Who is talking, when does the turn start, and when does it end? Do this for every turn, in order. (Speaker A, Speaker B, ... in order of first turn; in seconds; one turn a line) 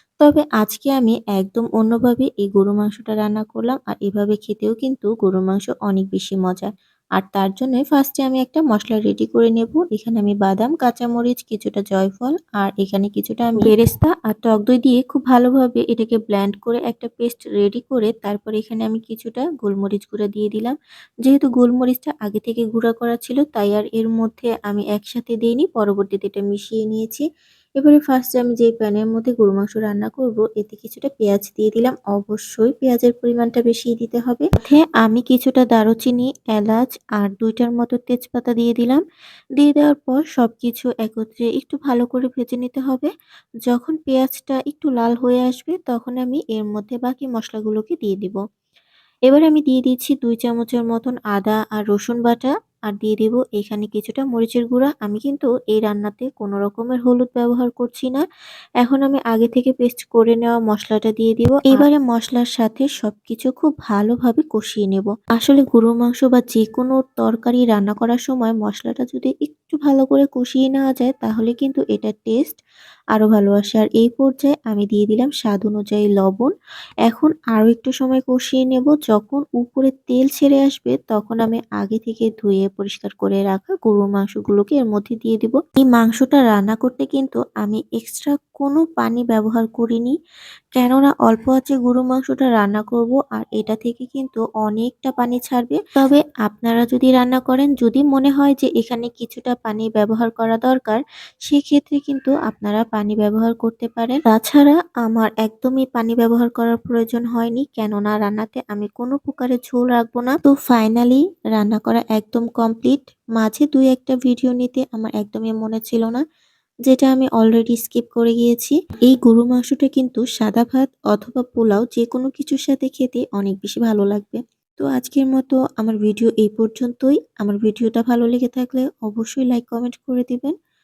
Speaker A: 0.2-27.2
Speaker A: 27.8-39.0
Speaker A: 39.6-43.1
Speaker A: 43.7-48.4
Speaker A: 49.3-58.2
Speaker A: 58.8-72.6
Speaker A: 73.1-76.5
Speaker A: 77.1-90.1
Speaker A: 90.8-116.2
Speaker A: 116.9-130.5